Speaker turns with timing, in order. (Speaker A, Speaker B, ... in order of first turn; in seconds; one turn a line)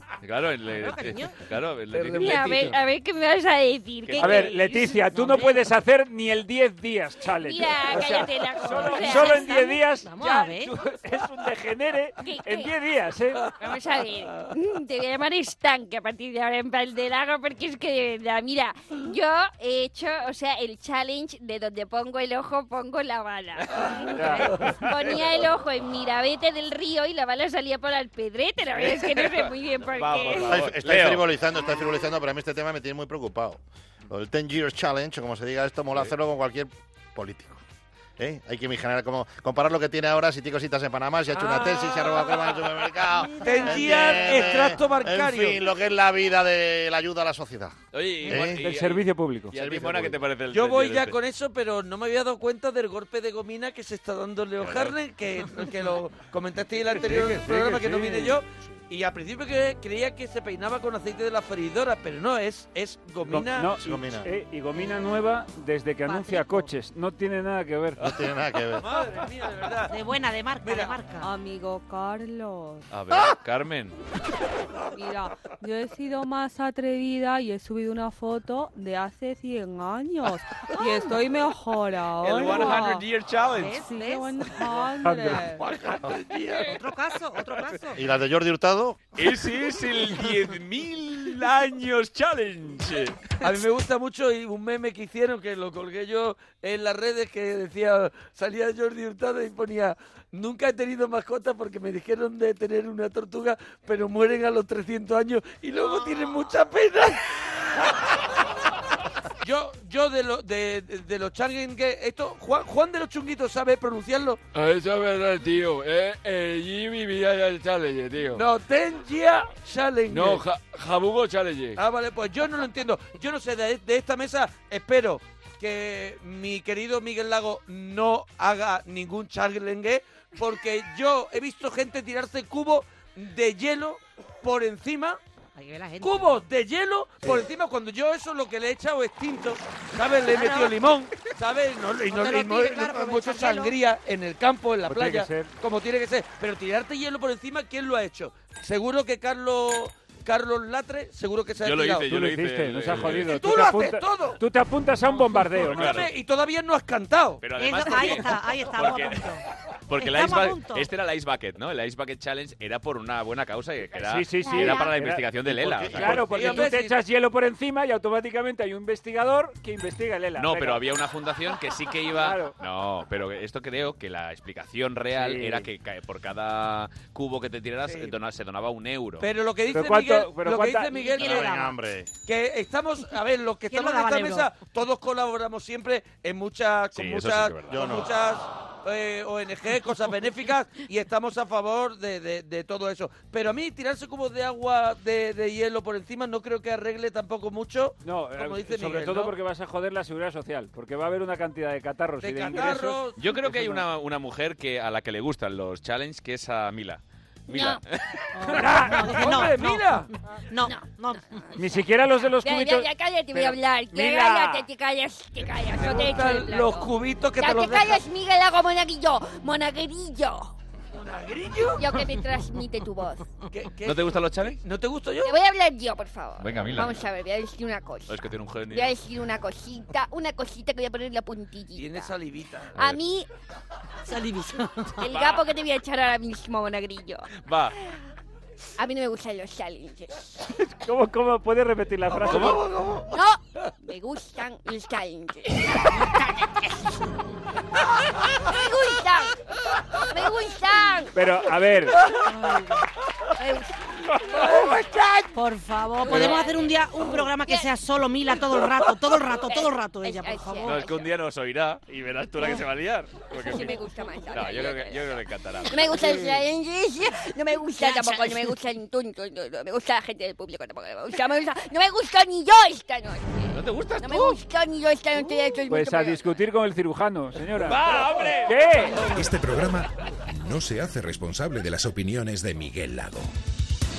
Speaker A: 0.2-2.8
Speaker B: 0.7-1.4
Speaker C: 2.1-4.7
Speaker A: 4.1-4.5
Speaker D: 4.2-13.4
Speaker B: 4.3-5.7
Speaker C: 7.4-9.8
Speaker B: 8.7-10.8
Speaker C: 12.2-12.7
Speaker C: 13.6-30.6
Speaker D: 24.2-24.5
Speaker A: 28.8-31.2
Speaker E: 30.4-37.6
Speaker E: 38.2-47.8
Speaker B: 43.2-44.4
Speaker F: 43.4-45.6
Speaker A: 47.9-51.2
Speaker E: 48.3-48.7
Speaker D: 48.3-49.6
Speaker E: 49.5-50.2
Speaker F: 50.5-63.7
Speaker A: 54.6-55.0
Speaker D: 57.0-58.4
Speaker D: 63.3-68.0
Speaker E: 63.7-64.3
Speaker B: 66.1-66.7
Speaker E: 68.0-68.8
Speaker F: 68.8-69.9
Speaker B: 69.9-71.3
Speaker F: 70.6-71.0
Speaker G: 71.2-72.9
Speaker A: 72.9-74.0
Speaker G: 74.9-83.1
Speaker A: 82.2-83.8
Speaker B: 83.5-84.6
Speaker G: 83.8-85.6
Speaker F: 85.6-86.7
Speaker B: 86.6-88.0
Speaker E: 88.0-89.0
Speaker A: 89.2-93.4
Speaker F: 93.4-107.2
Speaker F: 109.4-114.4
Speaker H: 114.5-118.4
Speaker F: 118.3-120.4
Speaker H: 120.1-121.8
Speaker F: 121.8-135.2
Speaker B: 135.6-136.4
Speaker F: 136.0-152.1
Speaker B: 140.3-140.7
Speaker B: 142.1-143.7
Speaker D: 144.8-145.6
Speaker A: 151.6-153.3
Speaker D: 152.1-156.1
Speaker F: 153.1-154.4
Speaker F: 155.5-157.4
Speaker A: 155.6-156.1
Speaker A: 157.4-159.3
Speaker B: 157.6-159.4
Speaker A: 159.9-166.7
Speaker B: 160.0-160.9
Speaker D: 163.9-170.8
Speaker C: 164.4-164.9
Speaker E: 165.5-166.3
Speaker F: 166.1-167.0
Speaker A: 170.4-179.3
Speaker D: 172.2-172.6
Speaker D: 175.1-175.7
Speaker F: 177.9-178.1
Speaker F: 179.2-181.6
Speaker D: 179.7-181.1
Speaker B: 180.9-181.7
Speaker E: 181.2-182.1
Speaker F: 182.3-199.3
Speaker B: 183.7-184.5
Speaker A: 186.9-187.9
Speaker E: 187.7-188.1
Speaker D: 198.0-203.8
Speaker F: 202.2-203.2
Speaker A: 203.2-208.3
Speaker C: 207.5-207.8
Speaker B: 208.3-211.4
Speaker D: 208.6-209.1
Speaker F: 208.6-210.1
Speaker D: 211.6-214.7
Speaker C: 212.4-220.5
Speaker F: 215.7-218.0
Speaker F: 220.9-222.1
Speaker C: 221.8-223.2
Speaker F: 223.5-225.4
Speaker A: 223.8-224.6
Speaker C: 225.2-232.1
Speaker A: 226.4-227.0
Speaker A: 228.1-228.9
Speaker F: 231.8-232.7
Speaker A: 232.8-233.0
Speaker C: 232.8-233.3
Speaker B: 234.1-235.0
Speaker C: 235.0-237.3
Speaker A: 235.1-235.5
Speaker A: 237.4-237.8
Speaker C: 238.8-240.4
Speaker D: 240.6-242.7
Speaker F: 242.1-243.1
Speaker A: 242.3-242.6
Speaker C: 243.1-247.0
Speaker C: 248.3-249.4
Speaker C: 250.1-251.1
Speaker D: 251.1-252.0
Speaker C: 253.4-253.7
Speaker C: 254.3-254.8
Speaker B: 255.3-260.8
Speaker C: 256.1-256.7
Speaker A: 256.1-256.4
Speaker C: 257.4-257.7
Speaker C: 259.4-261.1
Speaker A: 260.6-266.4
Speaker C: 263.3-265.1
Speaker C: 265.7-276.2
Speaker A: 267.8-268.4
Speaker A: 273.5-274.4
Speaker D: 275.7-279.1
Speaker A: 277.6-279.1
Speaker I: 279.1-283.3